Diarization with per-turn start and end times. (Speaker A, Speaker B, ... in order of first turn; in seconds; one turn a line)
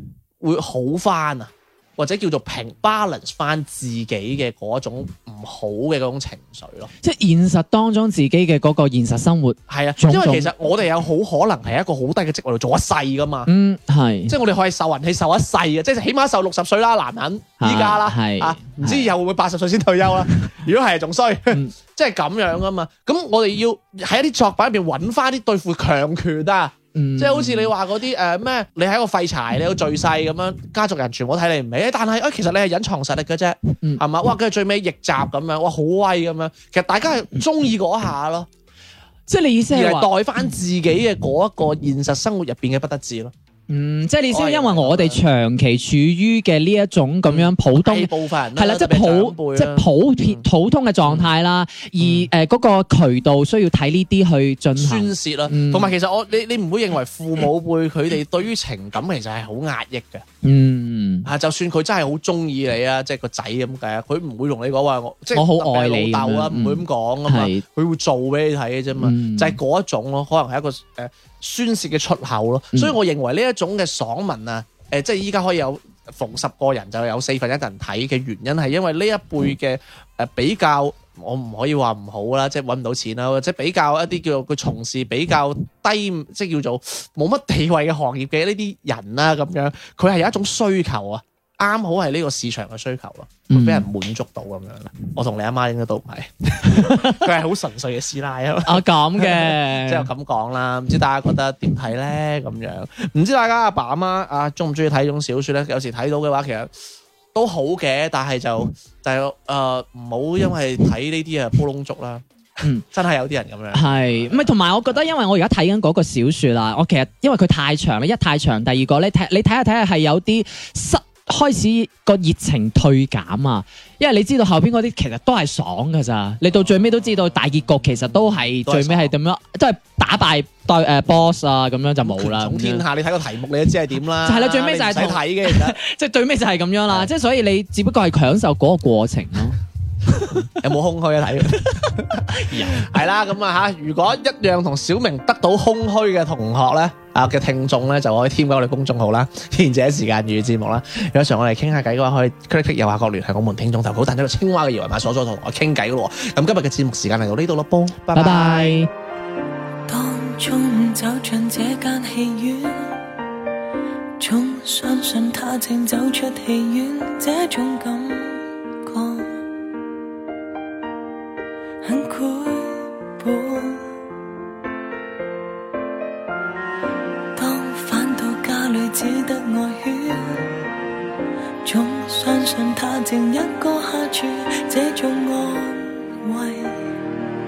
Speaker A: 0.4-6.9
Speaker B: 7.0-10.5
Speaker A: 9.7-13.5
Speaker B: 13.5-14.3
Speaker A: 14.3-38.5
Speaker B: 17.6-19.1
Speaker B: 26.9-27.7
Speaker B: 39.3-40.1
Speaker A: 39.7-43.3
Speaker B: 43.7-55.9
Speaker A: 44.3-45.2
Speaker A: 47.3-50.5
Speaker A: 51.0-51.3
Speaker A: 52.0-52.3
Speaker A: 54.8-60.3
Speaker B: 60.4-61.3
Speaker A: 61.2-106.7
Speaker B: 65.3-67.6
Speaker B: 69.0-69.6
Speaker B: 93.5-93.9
Speaker B: 96.7-97.3
Speaker B: 98.7-100.1
Speaker A: 107.3-112.2
Speaker A: 112.8-115.0
Speaker B: 113.7-132.8
Speaker A: 128.6-129.1
Speaker A: 132.0-135.8
Speaker B: 134.2-140.4
Speaker A: 140.3-158.8
Speaker B: 141.5-142.9
Speaker B: 158.1-158.9
Speaker C: 159.9-163.1
Speaker C: 164.2-169.4
Speaker C: 171.8-173.9
Speaker C: 177.4-180.6
Speaker C: 181.7-186.8